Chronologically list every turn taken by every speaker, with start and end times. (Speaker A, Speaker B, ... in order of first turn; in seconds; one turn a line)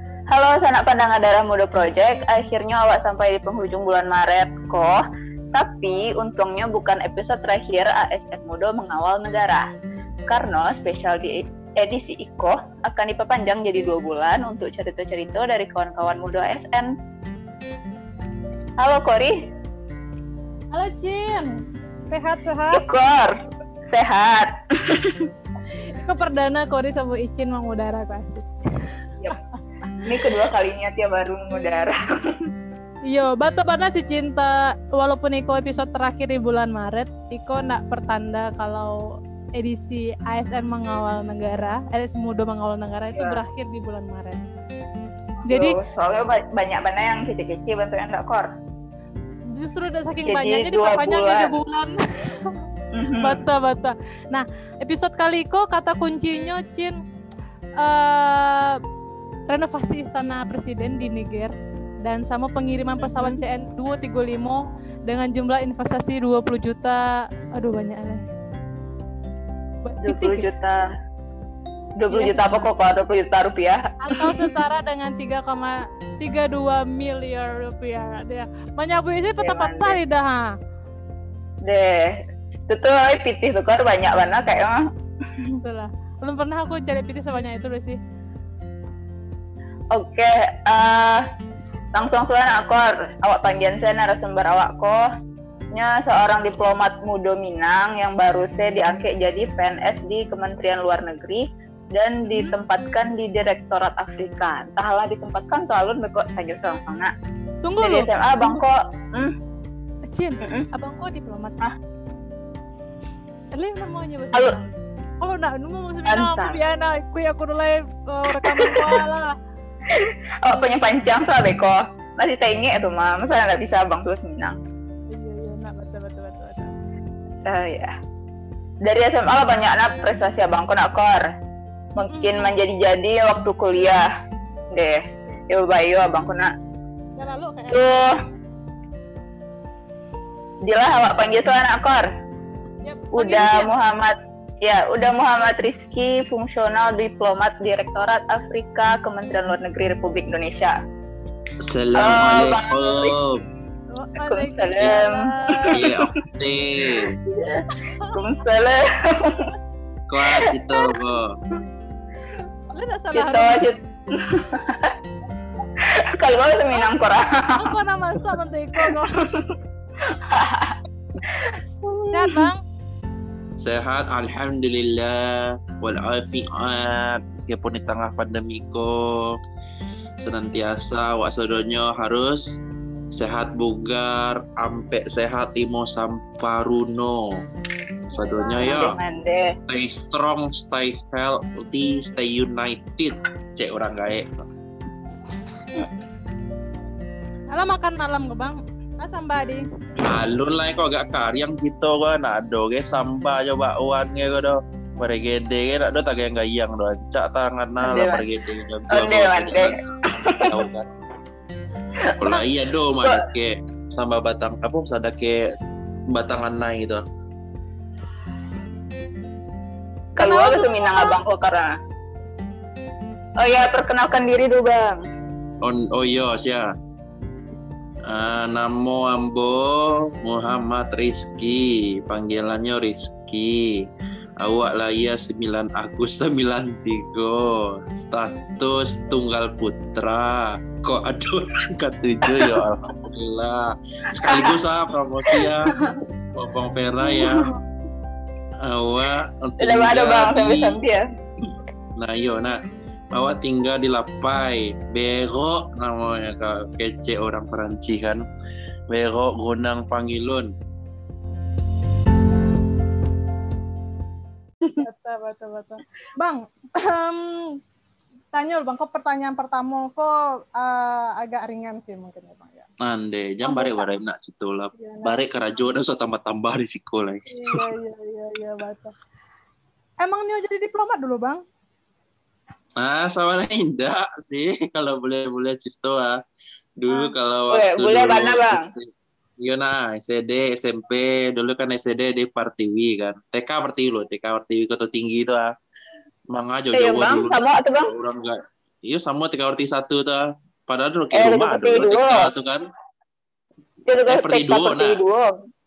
Speaker A: 0.3-5.0
Speaker A: 5.5-9.7
Speaker A: 10.3-16.9
Speaker A: 18.8-19.4
Speaker B: 20.7-22.8
Speaker A: 22.7-23.4
Speaker A: 23.9-25.2
Speaker B: 25.9-28.4
Speaker A: 30.0-32.0
Speaker B: 33.1-44.5
Speaker B: 45.5-45.8
Speaker A: 45.5-48.5
Speaker B: 49.5-52.5
Speaker A: 50.3-51.6
Speaker A: 52.9-53.4
Speaker B: 53.2-57.0
Speaker B: 57.8-58.8
Speaker B: 59.5-68.3
Speaker A: 63.0-63.4
Speaker B: 69.8-70.5
Speaker A: 70.0-70.8
Speaker A: 72.0-74.5
Speaker B: 72.1-72.7
Speaker B: 74.0-80.5
Speaker A: 79.4-80.0
Speaker A: 81.7-84.8
Speaker B: 85.6-88.0
Speaker A: 89.9-91.2
Speaker A: 91.9-95.0
Speaker A: 95.7-107.1
Speaker B: 102.2-102.5
Speaker B: 107.6-108.6
Speaker A: 107.8-109.3
Speaker B: 110.1-111.6
Speaker B: 113.5-119.4
Speaker A: 116.1-116.6
Speaker A: 118.4-119.0
Speaker A: 119.9-124.6
Speaker B: 125.1-126.7
Speaker A: 127.5-127.9
Speaker A: 128.8-131.3
Speaker B: 132.0-132.6
Speaker A: 132.0-134.1
Speaker A: 134.7-136.5
Speaker B: 137.2-138.1
Speaker A: 137.7-138.2
Speaker A: 140.7-142.1
Speaker B: 142.8-143.7
Speaker A: 143.2-150.8
Speaker C: 151.7-153.4
Speaker A: 152.0-153.1
Speaker B: 153.9-155.9
Speaker A: 154.3-156.0
Speaker C: 155.7-157.2
Speaker B: 157.6-158.2
Speaker A: 158.1-159.5
Speaker C: 160.1-161.3
Speaker A: 160.3-160.9
Speaker B: 162.7-163.7
Speaker A: 163.1-164.9
Speaker A: 165.8-167.7
Speaker B: 167.6-169.5
Speaker A: 170.1-172.5
Speaker B: 172.1-172.6
Speaker C: 173.6-179.4
Speaker C: 180.2-182.6
Speaker C: 183.1-187.4
Speaker C: 188.1-189.0
Speaker B: 188.1-188.9
Speaker A: 188.6-189.6
Speaker C: 189.7-194.5
Speaker B: 197.5-199.6
Speaker C: 200.0-210.9
Speaker A: 207.8-208.2
Speaker A: 208.9-210.4
Speaker C: 212.2-215.4
Speaker C: 216.1-217.0
Speaker A: 220.2-221.7
Speaker B: 220.2-221.2
Speaker A: 223.4-225.0
Speaker C: 225.6-226.7
Speaker C: 228.1-233.8
Speaker C: 234.4-245.7
Speaker A: 242.3-242.6
Speaker A: 244.2-244.5
Speaker A: 245.3-245.9
Speaker C: 246.3-247.5
Speaker A: 247.0-247.5
Speaker C: 248.6-250.8
Speaker A: 249.6-251.0
Speaker C: 252.0-252.6
Speaker C: 253.1-258.2
Speaker C: 258.9-260.5
Speaker B: 264.8-267.6
Speaker B: 268.3-272.7
Speaker C: 272.8-277.6
Speaker B: 273.4-273.9
Speaker B: 274.7-275.2
Speaker B: 277.3-278.9
Speaker B: 280.0-281.4
Speaker C: 282.8-286.2
Speaker C: 286.8-295.5
Speaker B: 286.9-287.1
Speaker A: 287.5-288.6
Speaker C: 296.3-302.6
Speaker A: 296.7-297.9
Speaker A: 301.1-302.3
Speaker A: 303.9-305.4
Speaker C: 304.1-305.0